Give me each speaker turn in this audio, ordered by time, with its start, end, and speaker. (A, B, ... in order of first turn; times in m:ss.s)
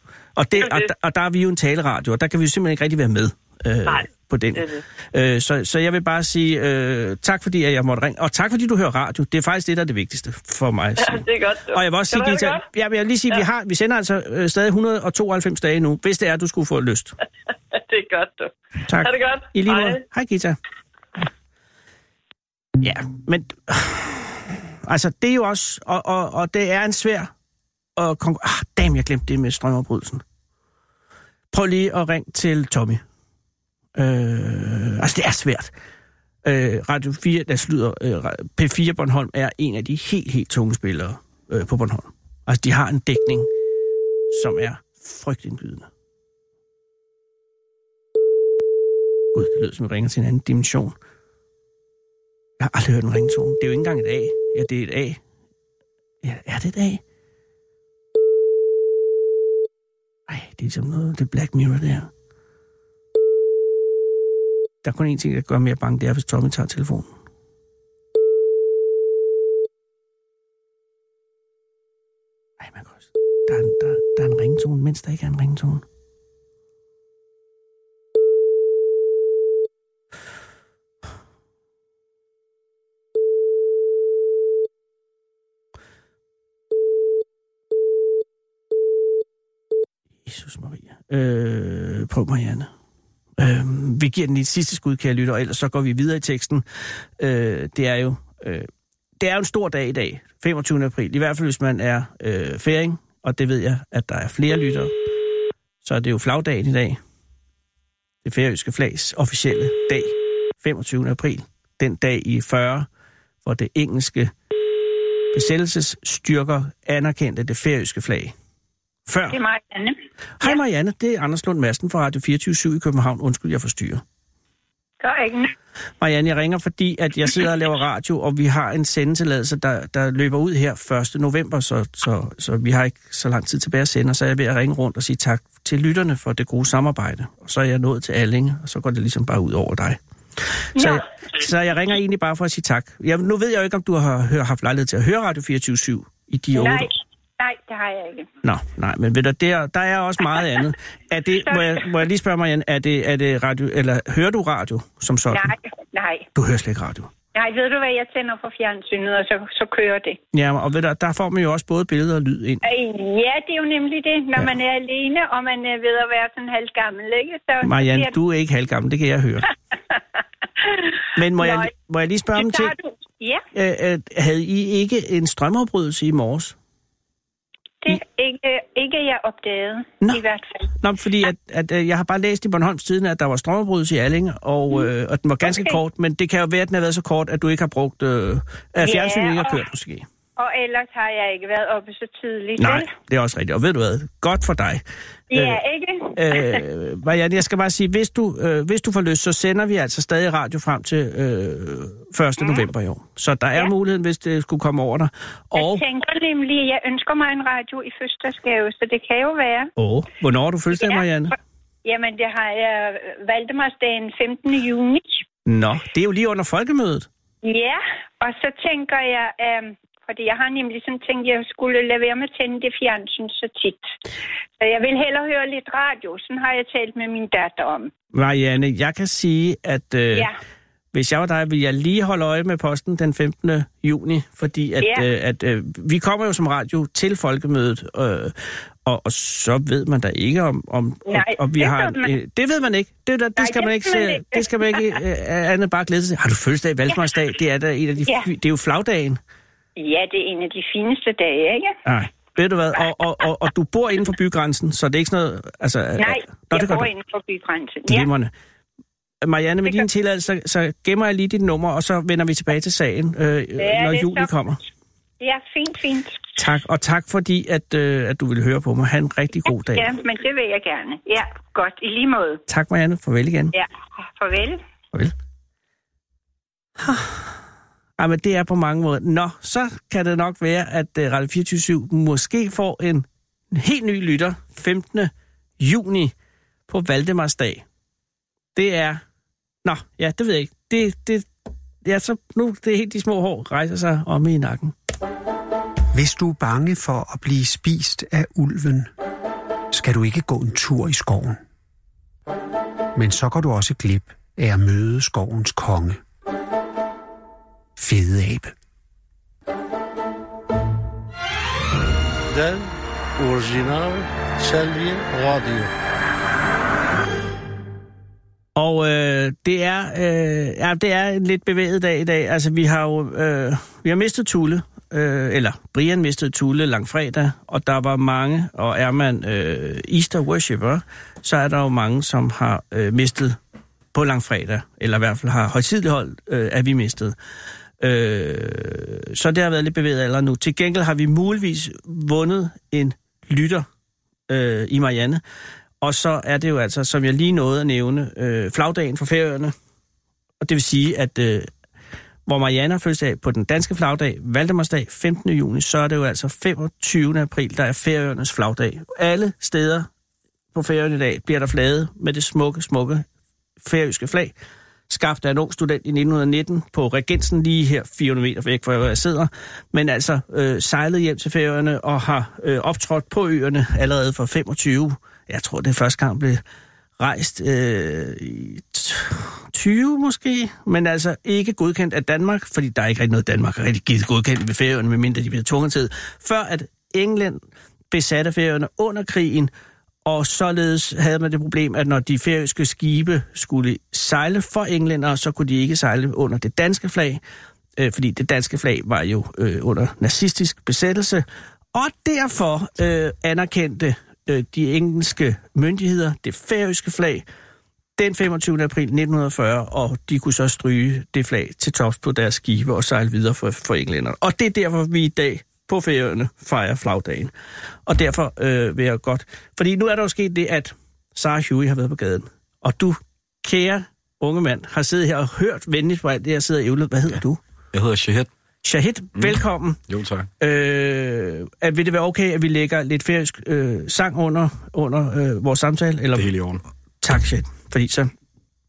0:00.4-0:17.2 A
0:00.6-0:00.9 B
0:03.9-0:04.8 B
0:11.0-0:12.7 B
0:17.7-0:20.0 B
0:18.9-0:20.6 A
0:22.8-0:27.3 A
0:28.0-0:30.2 A
0:31.5-0:33.0 A
0:34.0-0:35.7 A
0:36.4-0:43.5 A
0:44.3-0:45.9 A
0:49.3-0:51.0 A
0:52.6-0:55.2 A
0:56.2-0:57.0 A
1:00.3-1:02.1 A
1:04.8-1:07.1 A
1:12.6-1:15.8 A
1:30.2-1:32.7 A
1:33.4-1:36.6 A
1:37.2-1:38.7 A
1:39.2-1:44.9 A
1:45.8-1:47.0 A
1:48.2-1:52.9 A
1:53.4-1:54.3 A
1:55.3-1:58.3 A
1:59.1-1:59.4 A
1:59.3-2:00.6 C
2:00.4-2:04.0 A
2:05.0-2:05.5 C
2:06.0-2:26.9 A
2:20.8-2:21.1 C
2:26.5-2:28.3 C
2:28.4-2:35.5 A
2:31.5-2:31.9 C
2:35.3-2:36.3 C
2:36.4-2:37.1 A
2:37.4-2:40.2 C
2:40.3-2:42.6 A
2:42.6-2:48.1 C
2:47.6-2:49.5 A
2:51.2-2:52.7 A
2:51.4-2:51.7 C
2:52.4-2:53.4 C
2:53.5-2:56.5 A
2:57.8-3:00.7 C
3:00.8-3:10.1 A
3:05.4-3:05.8 C
3:08.8-3:09.6 C
3:10.4-3:12.9 C
3:12.6-3:15.6 A
3:15.3-3:16.6 C
3:16.2-3:25.8 A
3:25.6-3:29.7 C
3:29.8-3:31.4 A
3:31.8-3:35.2 C
3:35.5-3:37.1 A
3:37.4-3:43.9 C
3:44.6-3:47.9 C
3:48.1-3:50.3 A
3:50.9-4:09.2 A
3:54.8-3:55.1 C
4:01.1-4:02.1 C
4:03.4-4:04.9 C
4:09.8-4:11.8 C
4:11.9-4:16.9 A
4:16.0-4:18.1 C
4:17.9-4:18.3 A
4:19.2-4:24.6 A
4:23.6-4:24.3 C
4:25.2-4:26.3 C
4:26.4-4:29.9 A
4:29.7-4:32.4 C
4:32.5-4:33.5 A
4:33.5-4:34.6 C
4:36.8-4:37.3 A
4:38.0-4:46.1 A
4:46.7-4:47.6 A
4:48.6-4:49.0 A
4:49.6-4:51.3 A
4:51.8-4:54.7 A
4:55.9-4:58.9 D
4:59.7-5:01.4 D
5:03.0-5:06.0 D
5:07.8-5:08.5 D
5:12.3-5:15.7 E
5:18.6-5:33.4 A
5:33.9-5:37.2 A
5:37.8-5:43.7 A
5:44.3-5:45.2 A
5:45.8-5:49.5 A
5:50.4-5:51.5 A
5:52.3-5:59.9 A
6:00.5-6:03.0 A
6:03.6-6:04.3 A
6:04.9-6:16.4 A
6:17.0-6:27.4 A
6:27.9-6:29.5 A
6:30.0-6:37.2 A
6:37.8-6:47.2 A
6:48.0-6:57.3 A
6:57.9-7:07.4 A
7:07.7-7:08.3 F
7:08.6-7:09.8 A
7:09.2-7:10.3 F
7:10.4-7:16.3 A
7:16.1-7:16.6 F
7:17.0-7:18.1 A